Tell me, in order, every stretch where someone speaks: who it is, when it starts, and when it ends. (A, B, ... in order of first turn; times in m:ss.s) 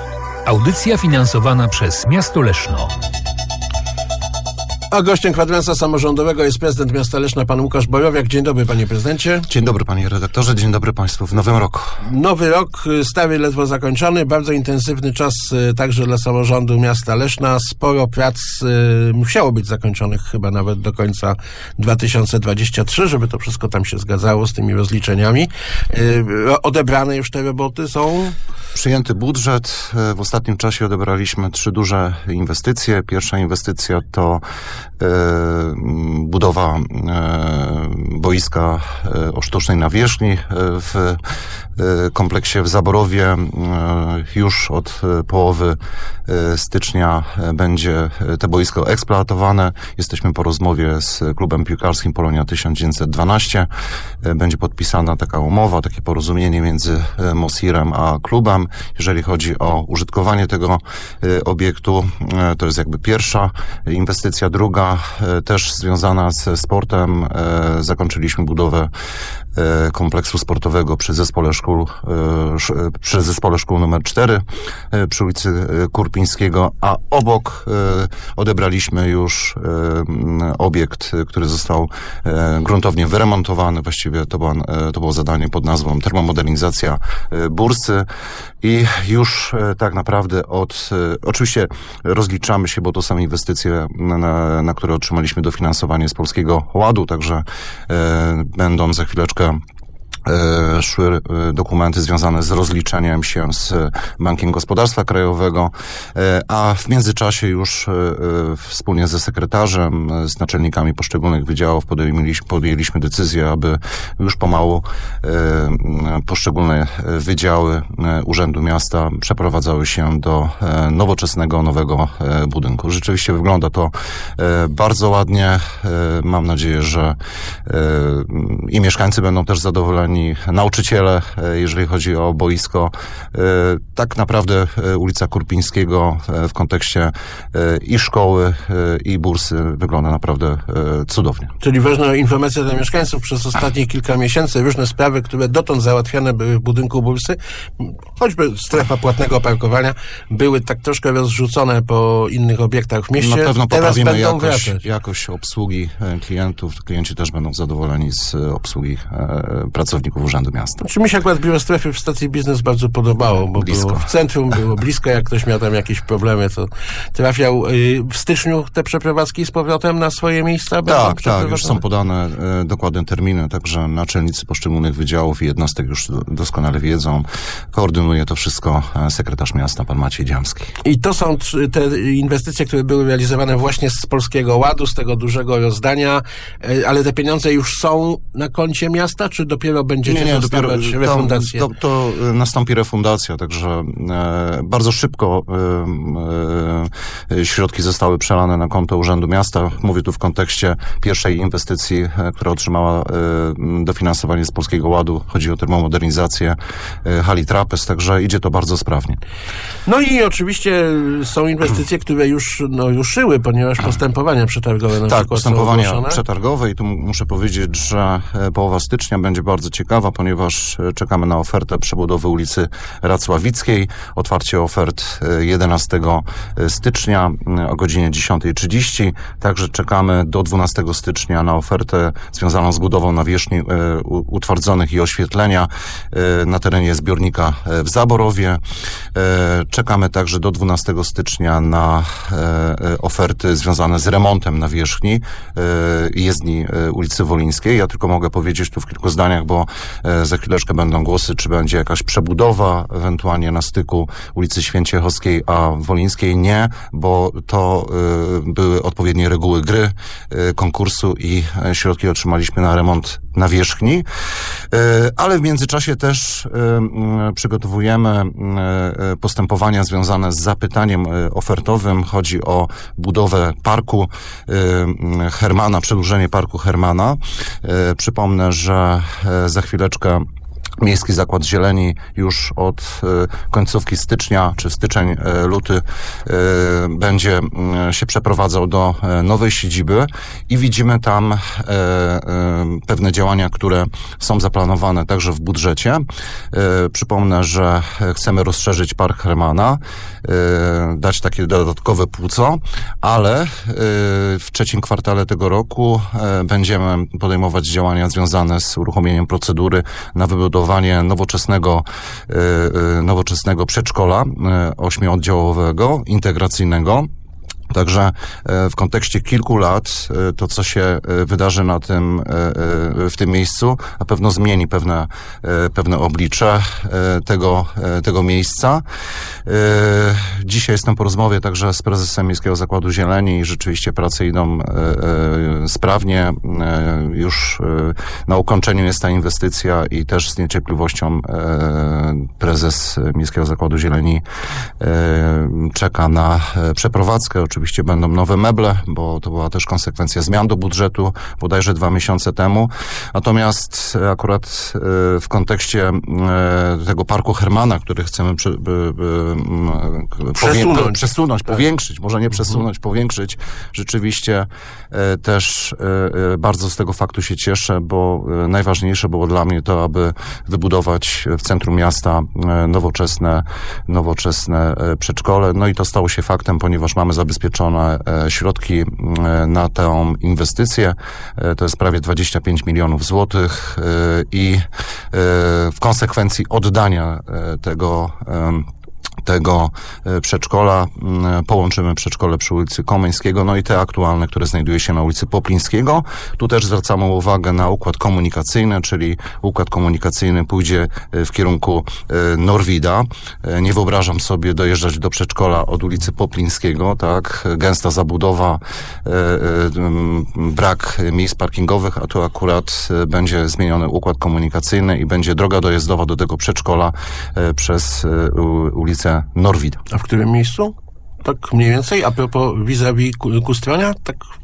0:00.4-0:02.9 A
0:04.9-0:09.5 B
0:09.5-0:12.0 C
0:12.0-0:28.4 B
0:28.7-0:34.4 C
0:35.0-0:41.2 C
0:41.8-0:53.7 C
0:54.2-1:08.9 C
1:09.5-1:28.1 C
1:28.6-1:39.6 C
1:40.2-2:21.5 C
2:21.6-2:34.8 B
2:33.2-2:40.8 C
2:40.8-2:51.8 B
2:43.6-2:44.1 C
2:50.8-3:00.7 C
3:00.8-3:11.7 B
3:10.0-3:29.2 C
3:29.8-3:36.2 B
3:35.1-3:58.6 C
3:59.1-4:24.0 C
4:24.7-4:40.2 C
4:40.8-5:17.1 C
5:17.7-5:28.8 C
5:29.4-5:44.2 C
5:44.8-6:28.6 C
6:00.3-6:01.6 B
6:29.2-6:59.8 C
6:59.9-7:04.3 B